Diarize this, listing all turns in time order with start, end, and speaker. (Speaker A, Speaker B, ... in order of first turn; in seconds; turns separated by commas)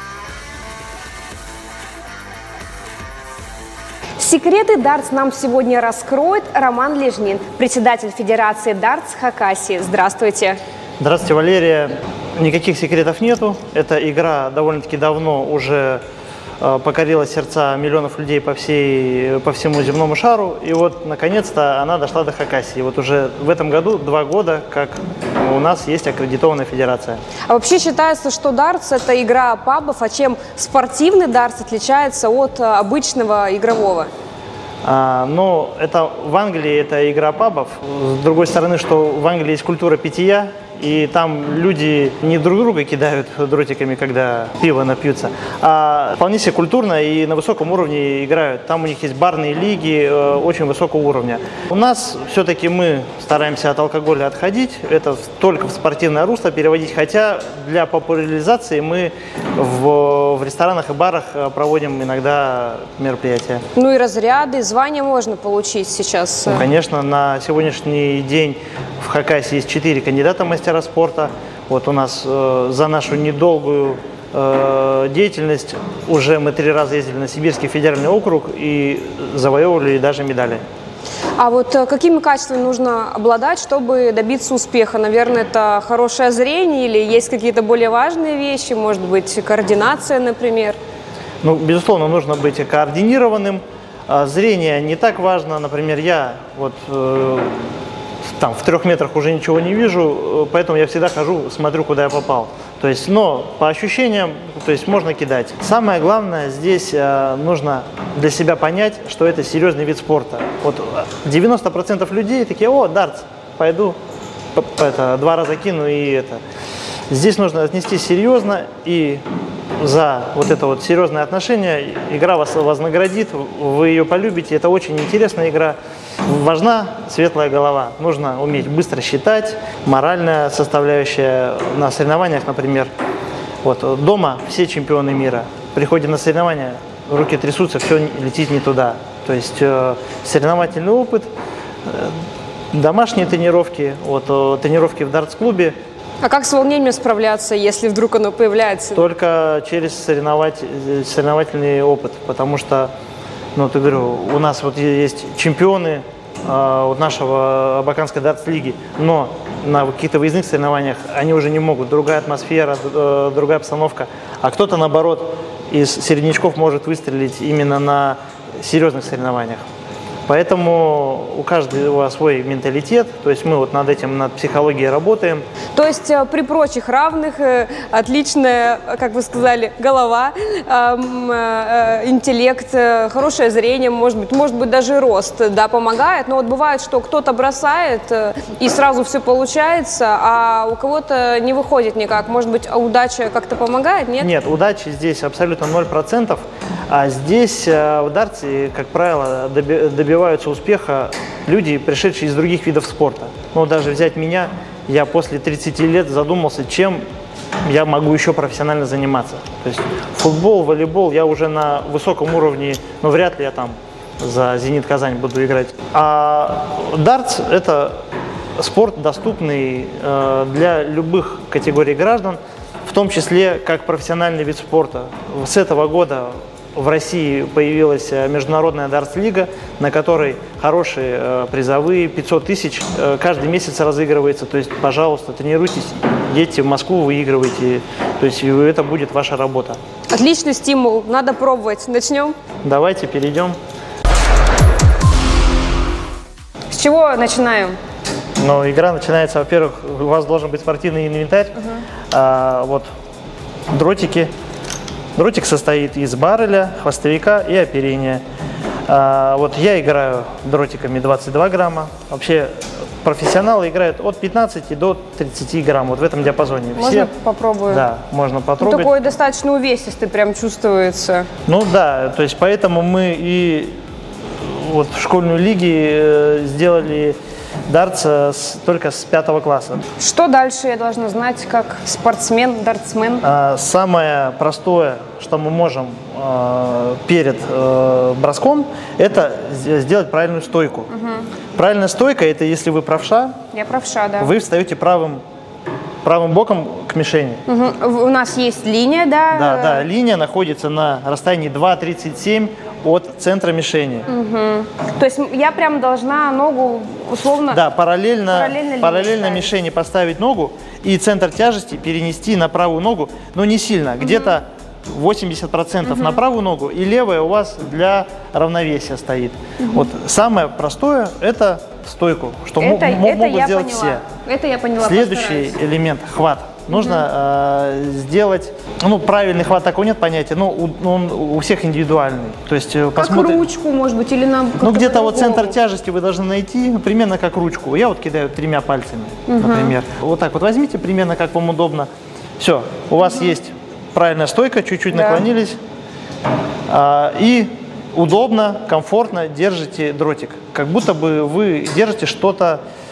Speaker A: 4.2-10.6, Speaker B: 11.0-16.0, Speaker B: 16.6-27.2, Speaker A: 27.5-34.1, Speaker B: 34.8-63.6, Speaker A: 63.8-66.7, Speaker B: 66.5-80.6, Speaker A: 81.4-90.8, Speaker B: 91.4-97.7, Speaker B: 98.4-114.0, Speaker B: 114.5-116.4, Speaker B: 117.1-119.2, Speaker B: 119.8-132.9, Speaker B: 133.6-141.3, Speaker B: 141.9-142.2, Speaker B: 142.7-145.8, Speaker A: 146.2-149.0, Speaker B: 148.9-152.9, Speaker B: 153.6-169.6, Speaker B: 170.3-175.4, Speaker A: 175.8-194.3, Speaker B: 194.2-207.0, Speaker B: 207.7-218.0, Speaker B: 218.6-239.8, Speaker A: 240.1-242.4, Speaker B: 242.6-243.6, Speaker A: 246.7-247.8, Speaker B: 248.4-251.6, Speaker B: 252.1-252.9, Speaker B: 253.7-254.3, Speaker B: 255.2-258.2, Speaker B: 258.9-267.1, Speaker A: 266.8-267.8, Speaker B: 267.7-268.9, Speaker A: 268.6-271.3, Speaker B: 271.5-273.8, Speaker B: 274.4-277.2, Speaker B: 277.7-279.8, Speaker A: 280.0-283.2, Speaker B: 283.2-290.9, Speaker A: 291.0-291.2, Speaker B: 291.6-293.4, Speaker A: 293.5-294.3, Speaker B: 294.2-295.2, Speaker B: 296.0-297.4, Speaker A: 297.5-299.9, Speaker B: 299.3-304.1, Speaker A: 304.1-307.6, Speaker B: 307.5-324.1, Speaker A: 308.3-309.5, Speaker A: 315.9-316.2, Speaker A: 322.6-325.5, Speaker B: 324.8-333.4, Speaker A: 326.7-327.0, Speaker A: 333.0-335.5, Speaker B: 334.6-345.6, Speaker A: 339.3-339.8, Speaker A: 344.9-345.2, Speaker B: 346.7-352.6